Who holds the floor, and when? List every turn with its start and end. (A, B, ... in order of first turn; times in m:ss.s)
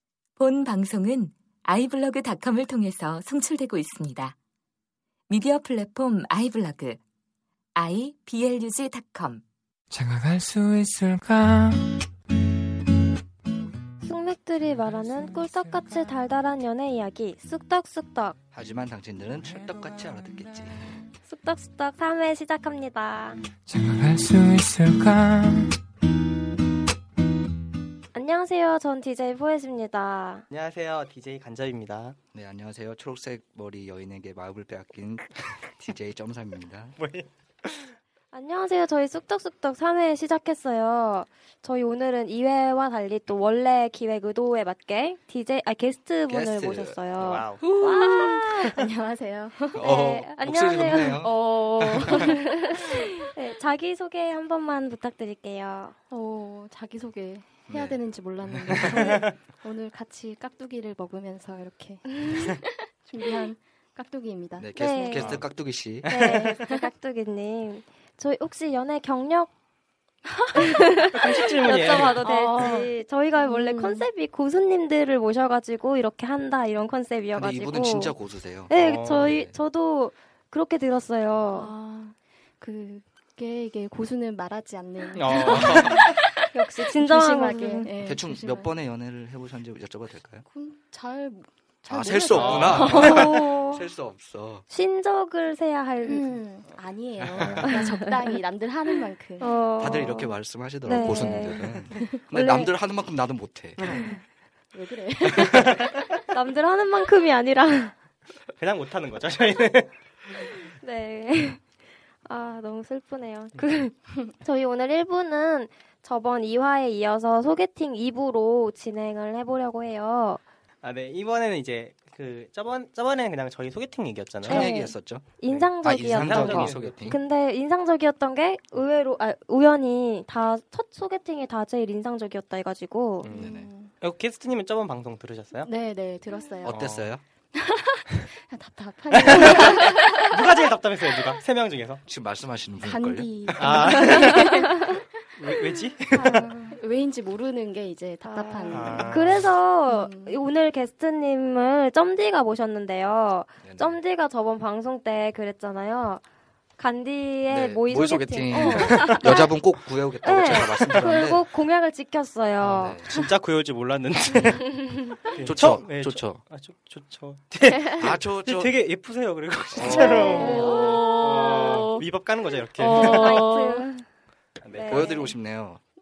0:00.4-0:04.4 A
0:05.3-0:07.0 A
0:07.8-0:09.4 A
0:09.9-0:12.1 B
0:14.0-0:18.4 C
0:14.7-0:16.2 B
0:18.5-0:20.8 D
0:19.4-0:20.6 B
0:21.2-0:23.4 C
0:23.7-0:25.8 B
0:28.1-0:30.4 C
0:30.5-0:32.2 E
0:32.3-0:37.0 D
0:37.0-0:37.9 E
0:38.3-0:48.8 C
0:46.3-0:47.0 D
0:47.2-0:47.6 E
0:47.6-0:49.9 F
0:49.7-0:52.3 D
0:49.8-0:51.2 C
0:51.2-0:53.1 F
0:52.0-0:56.0 C
0:56.1-1:05.3 F
0:57.7-0:59.2 D
0:58.7-0:59.3 E
1:04.6-1:06.1 D
1:04.8-1:05.3 C
1:05.2-1:05.4 E
1:06.0-1:06.5 E
1:06.1-1:09.5 C
1:06.3-1:06.9 F
1:10.4-1:10.9 F
1:10.6-1:18.1 C
1:11.1-1:12.2 E
1:11.7-1:14.1 F
1:17.3-1:19.6 D
1:18.7-1:21.7 C
1:18.7-1:19.3 E
1:21.5-1:28.7 F
1:25.1-1:26.1 E
1:25.3-1:26.0 D
1:26.5-1:27.9 C
1:28.0-1:30.4 D
1:30.4-1:33.4 F
1:31.9-1:34.6 D
1:32.2-1:33.2 E
1:32.7-1:33.9 C
1:34.7-1:36.3 C
1:36.0-1:39.6 F
1:37.3-1:37.7 D
1:37.6-1:38.4 C
1:39.4-1:42.7 C
1:39.8-1:44.1 D
1:41.0-1:41.5 F
1:44.0-1:44.2 F
1:44.7-1:46.0 F
1:45.4-1:45.9 E
1:46.3-1:47.9 C
1:48.6-1:49.9 E
1:50.4-1:51.6 C
1:52.2-2:00.4 C
2:00.8-2:04.7 E
2:04.4-2:05.3 D
2:04.5-2:13.3 C
2:05.5-2:07.2 E
2:05.8-2:07.2 D
2:13.2-2:15.7 E
2:13.3-2:13.9 F
2:13.3-2:13.7 D
2:15.6-2:16.8 F
2:16.6-2:17.2 D
2:16.7-2:17.1 E
2:17.6-2:21.4 F
2:19.1-2:22.0 E
2:22.1-2:24.1 D
2:22.8-2:30.4 F
2:23.6-2:24.6 E
2:24.1-2:24.9 C
2:25.4-2:26.5 E
2:28.2-2:36.2 C
2:28.7-2:29.5 E
2:33.6-2:34.0 D
2:36.8-2:39.5 C
2:37.5-2:41.5 D
2:40.2-2:43.0 C
2:42.6-2:43.1 D
2:42.7-2:44.8 E
2:44.4-2:44.6 D
2:44.8-2:45.3 C
2:45.3-2:53.5 E
2:45.4-2:46.4 D
2:47.7-2:48.1 F
2:48.0-2:48.8 D
2:49.7-2:50.4 D
2:49.8-2:52.1 F
2:49.8-2:51.0 C
2:52.8-2:53.9 F
2:52.9-2:54.0 C
2:54.6-2:55.3 E
2:54.7-2:55.3 C
2:54.8-2:55.8 D